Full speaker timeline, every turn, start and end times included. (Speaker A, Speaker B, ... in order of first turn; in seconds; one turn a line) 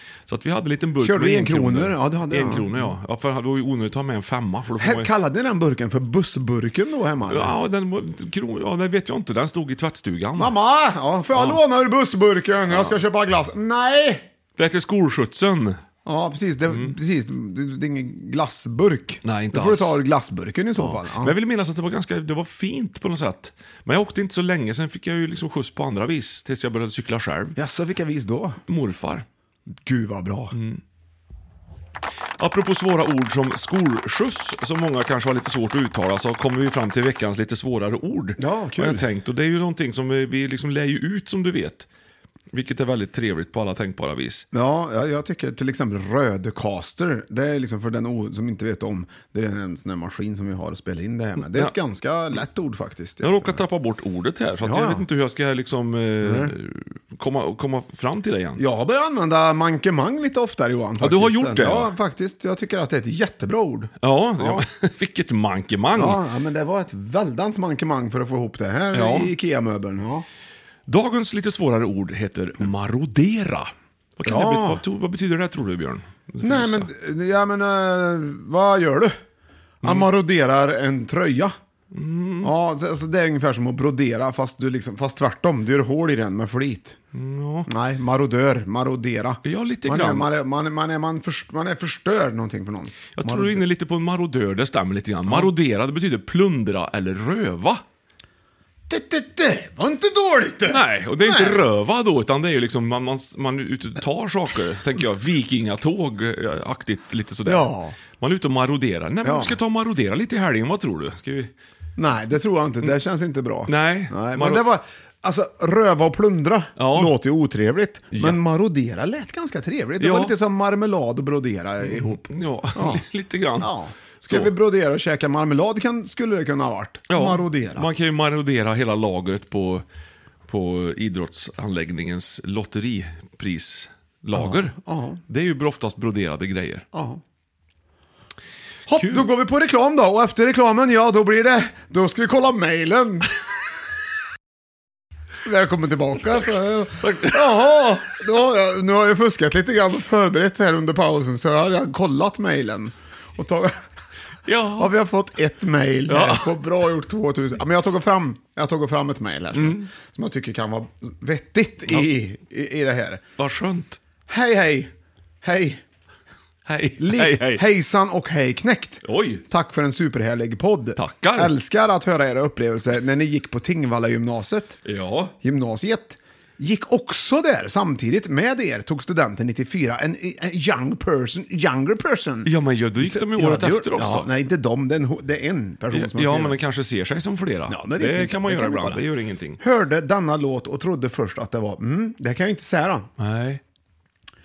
Speaker A: 0.3-5.1
Speaker B: 1.0-2.9
Speaker B: 4.8-7.5
Speaker A: 7.3-10.5
Speaker B: 10.4-14.3
Speaker A: 11.3-11.6
Speaker A: 12.7-13.0
Speaker A: 14.6-15.8
Speaker B: 16.1-21.4
Speaker A: 16.7-16.9
Speaker A: 19.2-20.0
Speaker A: 20.8-27.6
Speaker B: 27.6-28.6
Speaker A: 28.7-29.3
Speaker B: 29.8-30.6
Speaker A: 30.5-30.8
Speaker A: 32.4-41.9
Speaker B: 38.4-39.0
Speaker A: 42.5-44.5
Speaker B: 44.5-53.6
Speaker A: 51.4-51.7
Speaker A: 53.2-58.6
Speaker B: 54.6-55.1
Speaker B: 56.2-56.5
Speaker B: 58.6-64.6
Speaker A: 61.0-61.9
Speaker A: 64.0-66.2
Speaker B: 65.9-70.3
Speaker A: 68.9-69.3
Speaker A: 70.9-76.9
Speaker B: 74.2-74.8
Speaker B: 76.4-79.2
Speaker B: 79.8-81.6
Speaker A: 81.9-82.5
Speaker B: 82.4-87.0
Speaker A: 87.1-87.7
Speaker B: 87.7-93.6
Speaker A: 89.4-90.3
Speaker A: 93.2-97.8
Speaker B: 98.9-101.7
Speaker A: 100.7-111.5
Speaker B: 107.5-108.0
Speaker B: 109.2-109.6
Speaker B: 112.0-123.0
Speaker A: 113.7-114.6
Speaker A: 116.8-117.1
Speaker A: 118.1-118.4
Speaker A: 120.0-120.4
Speaker A: 121.8-124.5
Speaker B: 123.6-127.9
Speaker A: 127.1-129.8
Speaker A: 130.5-136.8
Speaker B: 134.3-135.2
Speaker B: 136.9-137.2
Speaker B: 138.9-143.3
Speaker A: 138.9-139.3
Speaker B: 145.4-153.8
Speaker A: 147.0-147.6
Speaker A: 154.4-154.9
Speaker B: 154.8-163.2
Speaker A: 156.1-156.6
Speaker A: 159.5-159.9
Speaker A: 163.4-164.0
Speaker B: 164.3-164.9
Speaker B: 165.4-165.8
Speaker A: 166.7-167.7
Speaker B: 167.0-174.8
Speaker A: 169.0-169.4
Speaker A: 171.0-171.5
Speaker A: 174.8-175.3
Speaker B: 175.4-186.6
Speaker A: 182.4-184.3
Speaker A: 185.9-189.6
Speaker B: 187.7-189.0
Speaker B: 189.6-193.1
Speaker A: 193.2-193.6